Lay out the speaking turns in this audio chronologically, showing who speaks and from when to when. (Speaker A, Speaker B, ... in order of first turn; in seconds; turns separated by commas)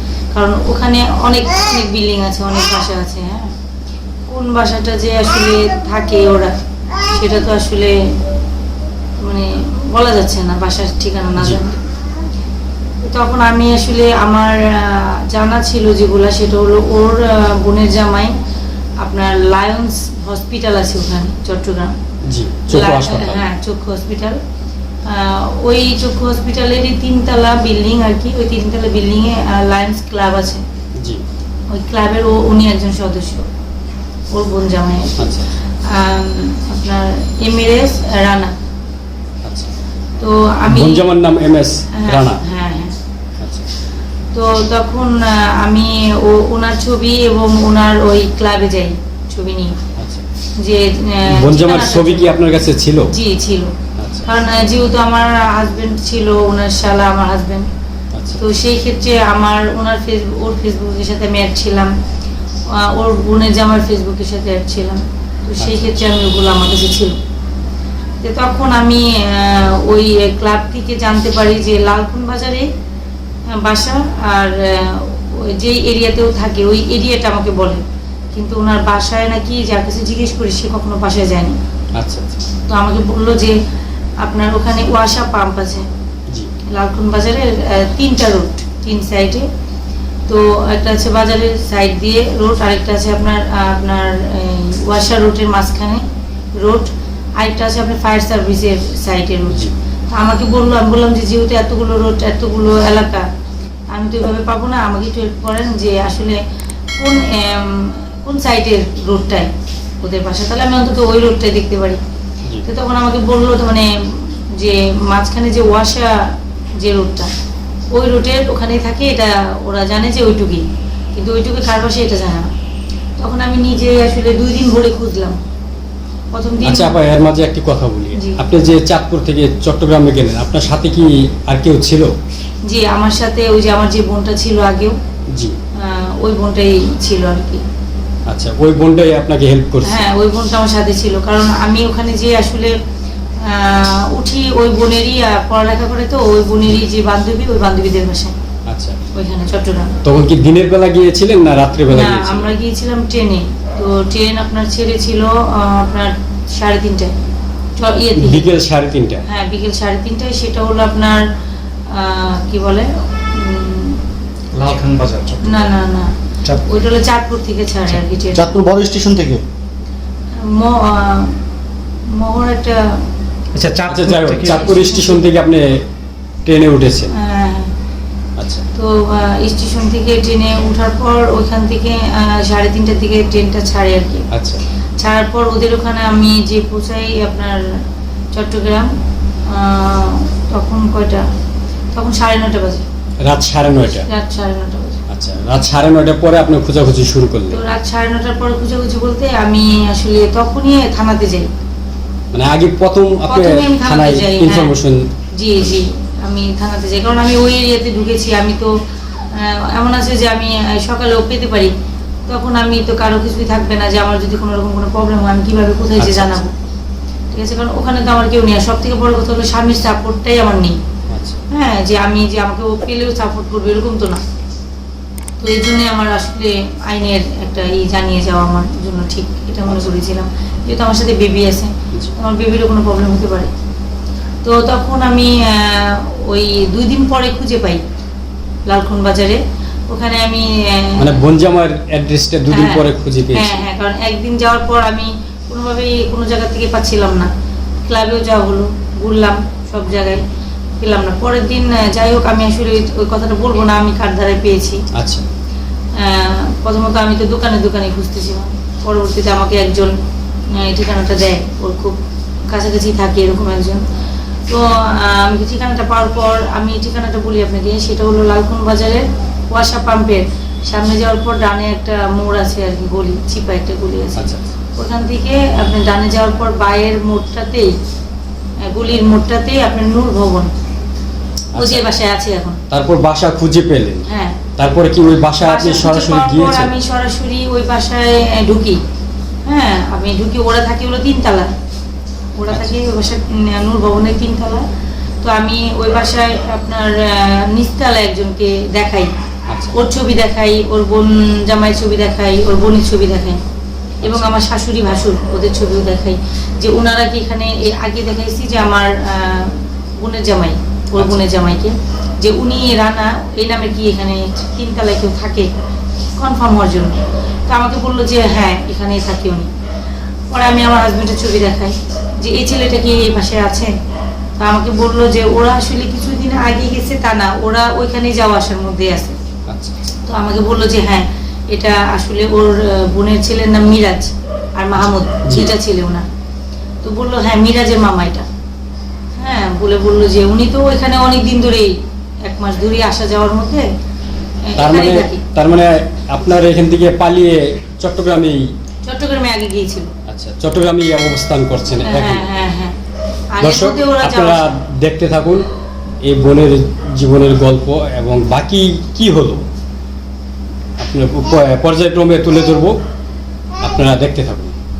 Speaker A: 0.3-3.5, Speaker A: 4.3-6.5, Speaker A: 7.1-7.9, Speaker A: 9.2-11.8, Speaker B: 11.4-11.6, Speaker A: 13.0-18.3, Speaker A: 19.0-21.9, Speaker B: 22.3-23.5, Speaker A: 22.7-24.4, Speaker A: 25.1-30.6, Speaker A: 31.7-33.5, Speaker A: 34.3-38.5, Speaker B: 35.2-35.5, Speaker B: 39.4-39.7, Speaker A: 40.2-41.1, Speaker B: 40.6-42.4, Speaker A: 42.0-43.0, Speaker B: 43.4-43.7, Speaker A: 44.3-49.8, Speaker B: 50.0-50.2, Speaker A: 50.6-52.5, Speaker B: 51.3-53.1, Speaker A: 53.1-53.7, Speaker B: 54.0-54.3, Speaker A: 54.2-57.7, Speaker B: 58.1-58.4, Speaker A: 58.4-61.9, Speaker A: 62.7-67.2, Speaker B: 65.6-65.8, Speaker A: 68.2-72.7, Speaker A: 73.5-77.8, Speaker A: 78.3-81.6, Speaker B: 82.0-82.4, Speaker A: 82.7-83.6, Speaker A: 84.2-85.9, Speaker A: 86.7-89.5, Speaker A: 90.3-96.0, Speaker A: 96.6-103.2, Speaker A: 103.9-106.4, Speaker A: 107.0-112.0, Speaker A: 112.7-117.3, Speaker A: 117.9-120.6, Speaker A: 121.1-122.5, Speaker A: 123.2-125.4, Speaker A: 126.3-127.0, Speaker B: 126.6-132.1, Speaker A: 128.2-128.4, Speaker A: 132.7-135.0, Speaker A: 135.8-137.6, Speaker B: 138.3-140.0, Speaker A: 139.8-142.7, Speaker A: 143.4-148.3, Speaker B: 148.7-149.0, Speaker A: 149.1-149.9, Speaker B: 150.0-152.5, Speaker A: 151.9-157.1, Speaker A: 157.8-158.5, Speaker B: 158.2-159.2, Speaker A: 159.2-161.2, Speaker A: 161.9-164.0, Speaker C: 164.5-165.5, Speaker A: 165.4-166.1, Speaker A: 166.6-168.5, Speaker C: 168.3-169.4, Speaker A: 170.4-171.3, Speaker A: 172.1-173.0, Speaker C: 173.6-174.6, Speaker B: 173.8-175.8, Speaker A: 174.5-175.2, Speaker B: 176.4-177.1, Speaker A: 177.2-177.7, Speaker B: 178.4-178.7, Speaker A: 178.8-184.2, Speaker B: 184.3-184.6, Speaker A: 185.0-187.6, Speaker A: 188.3-188.9, Speaker A: 189.5-191.2, Speaker A: 191.9-192.8, Speaker B: 193.2-194.0, Speaker A: 194.0-195.0, Speaker B: 195.1-197.6, Speaker A: 197.5-201.5, Speaker B: 202.3-205.1, Speaker A: 203.1-204.7, Speaker A: 205.4-208.7, Speaker A: 209.3-211.7, Speaker A: 212.3-216.5, Speaker B: 216.0-216.4, Speaker A: 217.3-220.8, Speaker B: 221.1-221.4, Speaker A: 221.5-224.2, Speaker A: 225.4-233.5, Speaker A: 234.4-237.8, Speaker A: 238.7-241.2, Speaker B: 241.0-243.6, Speaker A: 242.5-247.3, Speaker A: 247.9-250.2, Speaker A: 250.8-254.8, Speaker B: 254.9-255.3, Speaker A: 255.9-260.0, Speaker A: 260.5-262.0, Speaker A: 262.5-263.8, Speaker A: 264.5-277.7, Speaker B: 274.2-274.5, Speaker A: 278.7-280.5, Speaker B: 281.5-281.8, Speaker A: 281.5-282.6, Speaker B: 282.7-284.0, Speaker A: 284.1-284.5, Speaker B: 284.6-286.7, Speaker A: 285.4-288.8, Speaker A: 289.4-291.5, Speaker A: 292.4-294.6, Speaker A: 295.2-299.1, Speaker B: 299.5-299.7, Speaker A: 299.7-303.4, Speaker B: 304.0-304.3, Speaker A: 304.0-315.5, Speaker A: 316.2-319.5, Speaker A: 320.3-323.7, Speaker A: 324.4-329.1, Speaker B: 329.5-329.9, Speaker A: 330.1-336.1, Speaker B: 334.8-335.5, Speaker A: 336.8-338.3, Speaker A: 339.2-341.7, Speaker A: 342.2-343.6, Speaker A: 344.5-345.2, Speaker B: 344.6-348.4, Speaker A: 348.8-349.9, Speaker B: 350.1-352.2, Speaker A: 351.8-352.8, Speaker A: 353.3-354.5, Speaker B: 353.4-355.4, Speaker B: 356.0-359.4, Speaker B: 360.8-362.8, Speaker B: 363.6-364.6